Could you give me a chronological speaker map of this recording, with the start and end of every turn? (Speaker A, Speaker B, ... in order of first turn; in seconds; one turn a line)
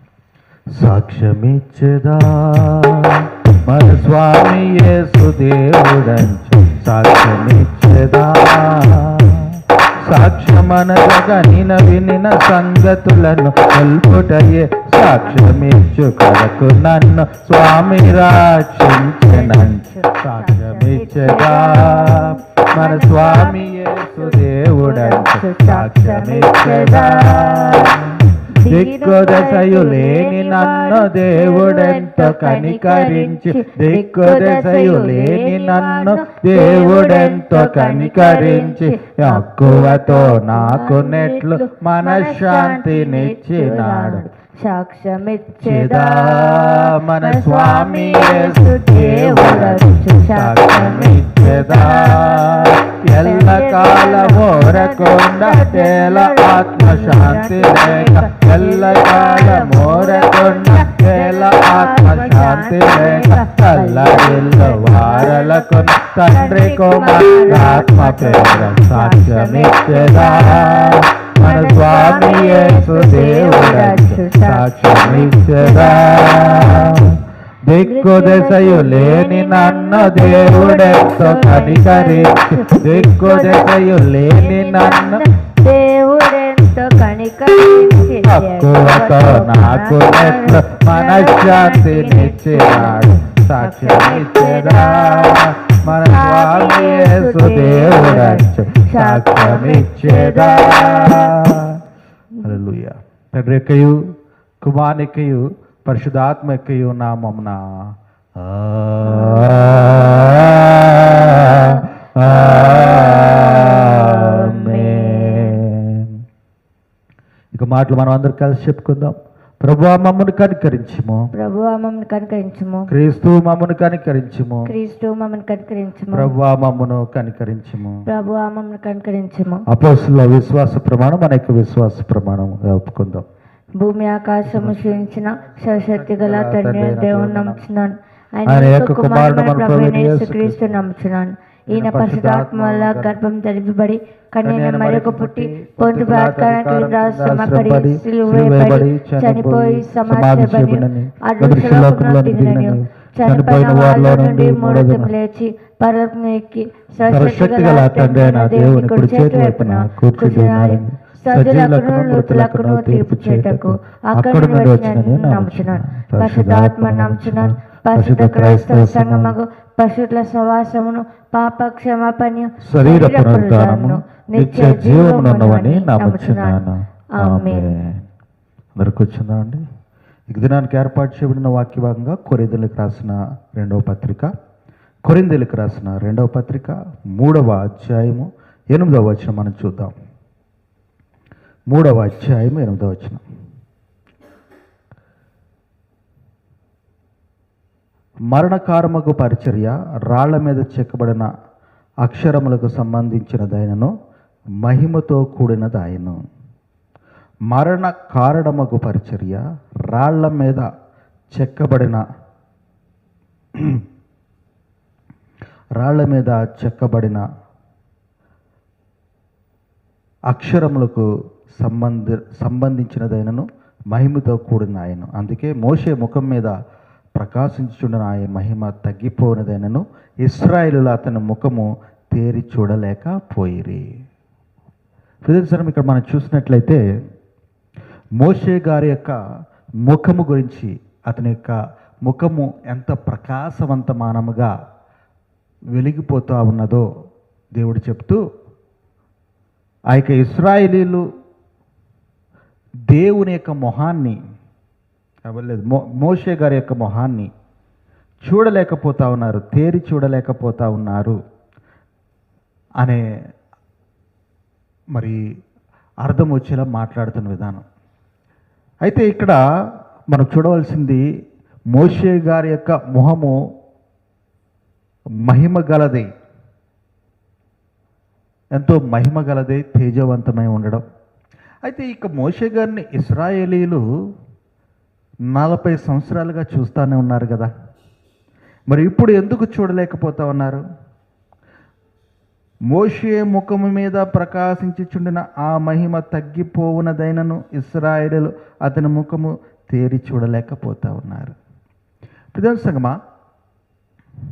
Speaker A: 0.8-44.2
Speaker B: 19.2-28.0
Speaker B: 28.5-77.0
Speaker A: 45.6-85.2
Speaker B: 77.8-101.4
Speaker A: 88.2-101.8
Speaker A: 102.4-104.0
Speaker A: 104.6-107.6
Speaker A: 108.4-116.2
Speaker B: 109.0-110.2
Speaker B: 111.2-115.6
Speaker A: 117.5-121.2
Speaker B: 121.3-122.9
Speaker A: 122.9-124.7
Speaker B: 124.7-126.3
Speaker A: 126.1-128.0
Speaker B: 128.1-129.6
Speaker A: 129.7-133.2
Speaker B: 133.8-177.7
Speaker A: 134.4-137.6
Speaker A: 138.4-140.9
Speaker A: 141.7-143.2
Speaker A: 144.4-155.1
Speaker A: 157.0-169.4
Speaker A: 172.6-178.0
Speaker A: 178.8-179.6
Speaker A: 180.3-184.3
Speaker A: 185.0-189.9
Speaker A: 191.7-193.2
Speaker A: 198.3-201.3
Speaker A: 202.0-203.9
Speaker A: 204.6-206.2
Speaker A: 207.5-210.7
Speaker A: 211.3-212.0
Speaker A: 213.6-213.8
Speaker A: 215.8-217.2
Speaker A: 220.3-221.1
Speaker A: 221.6-226.5
Speaker A: 227.2-233.8
Speaker A: 235.2-236.8
Speaker A: 238.2-239.2
Speaker A: 239.8-244.5
Speaker A: 245.7-246.8
Speaker A: 247.5-248.2
Speaker A: 249.9-251.0
Speaker A: 252.9-254.2
Speaker A: 255.2-257.3
Speaker A: 258.2-261.1
Speaker A: 264.9-265.2
Speaker A: 266.0-267.6
Speaker A: 268.8-269.4
Speaker A: 270.1-271.0
Speaker A: 271.7-273.4
Speaker A: 275.3-276.1
Speaker A: 278.5-280.8
Speaker A: 281.6-283.8
Speaker A: 285.3-287.5
Speaker A: 288.7-290.6
Speaker A: 292.7-301.4
Speaker A: 302.3-302.9